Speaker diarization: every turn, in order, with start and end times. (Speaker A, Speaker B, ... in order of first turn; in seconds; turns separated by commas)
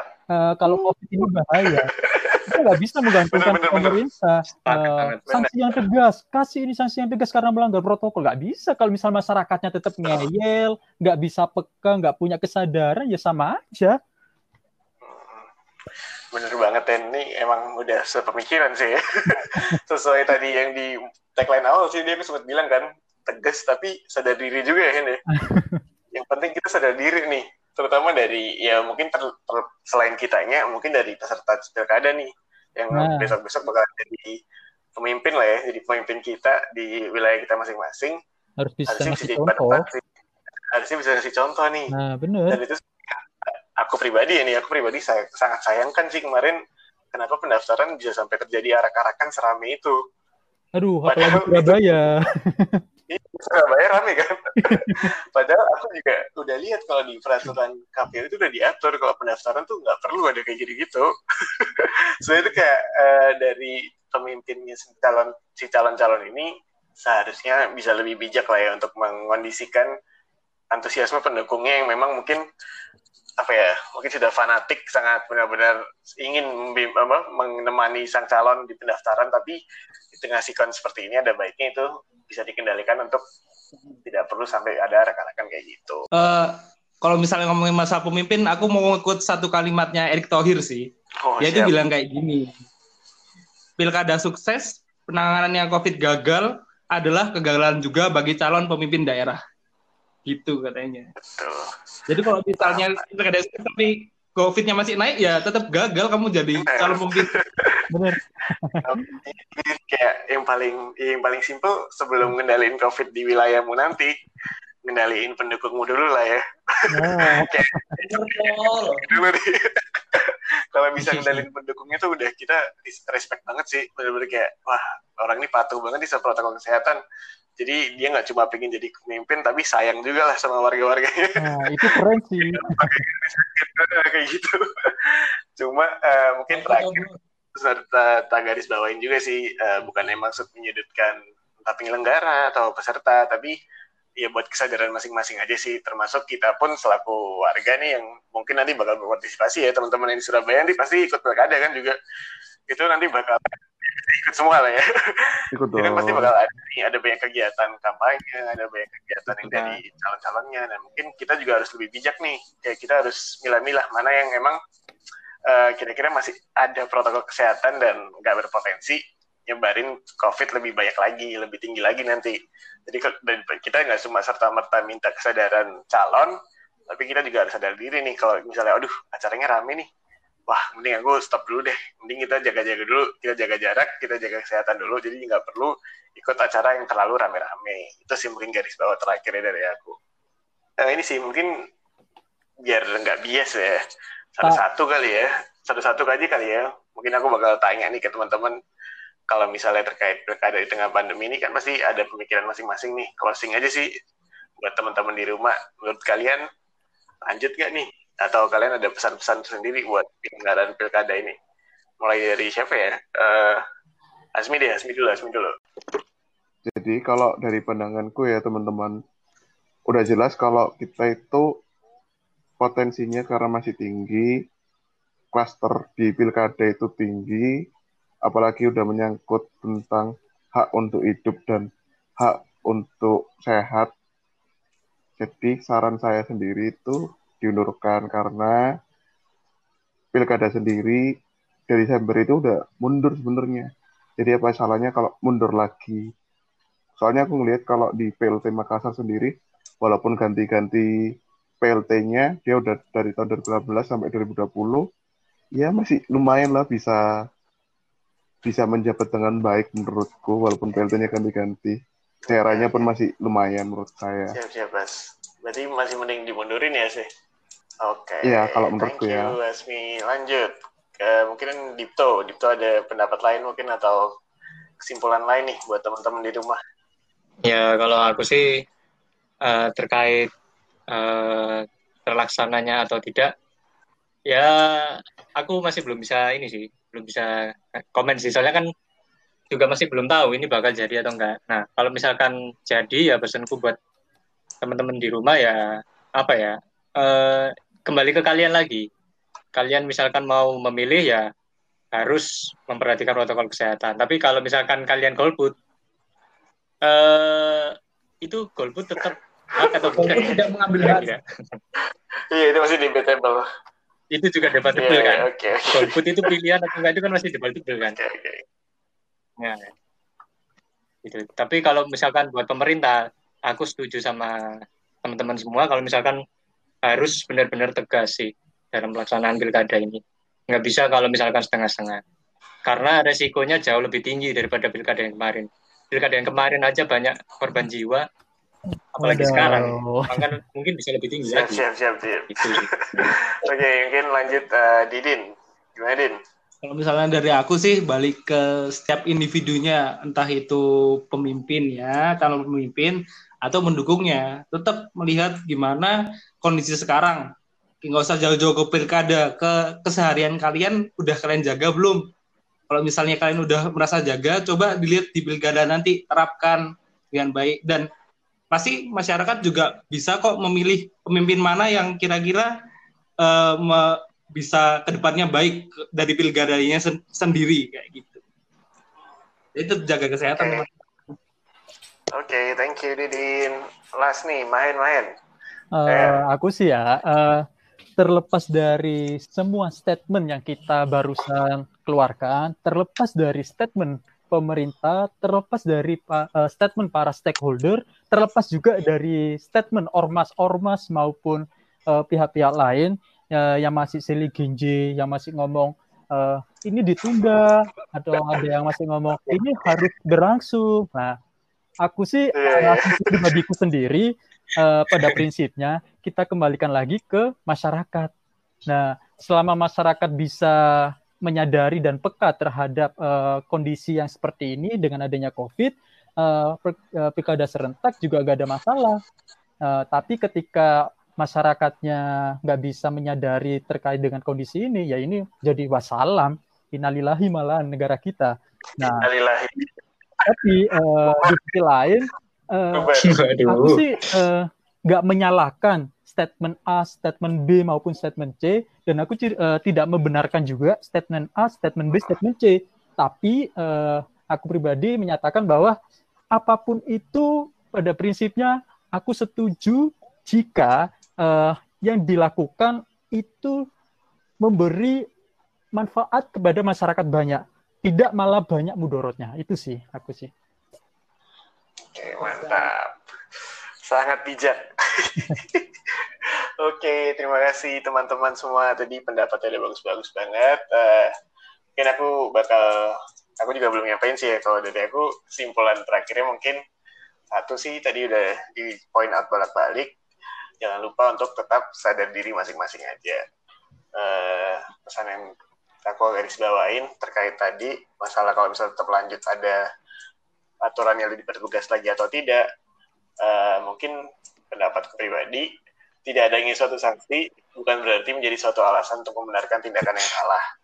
Speaker A: 0.3-1.9, Speaker B: 0.7-2.5, Speaker A: 2.5-14.0, Speaker B: 3.2-4.0, Speaker C: 4.6-5.3, Speaker B: 15.0-15.5, Speaker B: 16.3-25.2, Speaker A: 25.3-25.8, Speaker B: 26.1-34.4, Speaker A: 32.9-33.3, Speaker B: 35.0-38.2, Speaker A: 38.6-39.8, Speaker B: 38.9-40.0, Speaker B: 40.7-41.9, Speaker A: 41.9-42.6, Speaker B: 42.5-46.6, Speaker B: 47.1-50.0, Speaker A: 50.8-52.8, Speaker B: 51.1-52.0, Speaker B: 53.1-66.5, Speaker A: 54.6-55.0, Speaker B: 67.0-69.9, Speaker B: 70.7-72.4, Speaker B: 73.4-79.6, Speaker B: 80.1-83.2, Speaker B: 84.0-86.0, Speaker D: 86.1-90.9, Speaker B: 91.2-91.8, Speaker D: 91.4-92.5, Speaker D: 93.8-99.4, Speaker D: 100.2-101.1, Speaker B: 101.3-101.7, Speaker D: 102.1-107.3, Speaker B: 102.6-103.0, Speaker B: 106.6-107.8, Speaker A: 107.9-108.9, Speaker B: 108.8-114.1, Speaker B: 114.8-127.0, Speaker A: 116.9-117.9, Speaker D: 118.0-119.1, Speaker A: 121.1-121.4, Speaker B: 127.6-137.0, Speaker A: 131.4-133.0, Speaker D: 136.5-137.2, Speaker B: 137.6-143.6, Speaker B: 144.2-152.0, Speaker B: 152.7-164.6, Speaker E: 155.5-156.3, Speaker C: 159.3-159.8, Speaker B: 165.4-176.3, Speaker B: 176.9-179.9, Speaker B: 180.5-190.0, Speaker B: 190.8-191.5, Speaker B: 192.7-193.8, Speaker B: 194.3-198.6, Speaker B: 199.3-203.9, Speaker B: 204.6-206.4, Speaker B: 207.2-211.3, Speaker B: 212.0-213.6, Speaker B: 214.3-215.5, Speaker E: 216.7-219.0, Speaker E: 219.9-221.5, Speaker E: 222.6-224.3, Speaker E: 225.3-227.5, Speaker E: 228.2-231.7, Speaker E: 232.2-233.9, Speaker E: 235.2-238.6, Speaker E: 240.1-241.1, Speaker E: 241.7-246.0, Speaker E: 247.0-250.9, Speaker E: 251.6-254.8, Speaker E: 255.6-257.0, Speaker E: 258.4-261.8, Speaker B: 262.2-262.9, Speaker E: 262.3-264.4, Speaker B: 264.3-267.1, Speaker B: 267.8-274.1, Speaker E: 268.2-269.4, Speaker B: 274.8-276.6, Speaker C: 277.4-278.4, Speaker C: 279.4-280.3, Speaker C: 280.9-283.3, Speaker C: 284.3-287.3, Speaker C: 287.9-288.6, Speaker C: 289.5-293.8, Speaker C: 294.6-295.6, Speaker C: 296.2-298.8, Speaker C: 299.5-301.2, Speaker C: 301.9-305.5, Speaker C: 306.8-311.6, Speaker B: 309.6-311.0, Speaker D: 310.0-311.1, Speaker B: 311.8-313.4, Speaker C: 314.1-317.9, Speaker B: 314.7-316.3, Speaker B: 317.8-318.4, Speaker C: 319.4-319.7, Speaker C: 321.0-324.3, Speaker C: 325.0-326.2, Speaker C: 326.9-332.0, Speaker C: 332.6-338.0, Speaker A: 339.0-340.3, Speaker C: 339.0-341.6, Speaker B: 341.3-346.2, Speaker C: 342.3-343.1, Speaker D: 346.6-357.3, Speaker D: 357.8-362.0, Speaker D: 362.7-367.9, Speaker D: 368.5-372.5, Speaker D: 373.2-378.2, Speaker D: 379.6-380.7, Speaker B: 380.4-380.6, Speaker B: 382.1-385.1, Speaker A: 385.7-387.4, Speaker B: 385.9-386.2, Speaker A: 388.0-411.2, Speaker B: 409.2-409.7, Speaker A: 411.8-418.1, Speaker B: 412.3-413.3, Speaker A: 418.7-429.0, Speaker A: 429.6-439.1, Speaker B: 438.8-440.2, Speaker A: 440.2-442.9, Speaker B: 441.1-441.4, Speaker B: 442.7-443.4, Speaker C: 443.0-443.8, Speaker A: 443.5-455.8, Speaker A: 456.3-463.6, Speaker A: 464.4-465.0, Speaker A: 465.8-470.3, Speaker B: 471.9-473.0, Speaker B: 473.9-475.7, Speaker B: 476.6-481.1, Speaker B: 481.8-486.6, Speaker B: 487.3-489.9, Speaker B: 490.6-493.2, Speaker B: 493.9-495.3, Speaker B: 495.8-499.6, Speaker B: 500.6-502.4, Speaker B: 503.2-503.9, Speaker B: 504.5-505.5, Speaker B: 506.1-510.4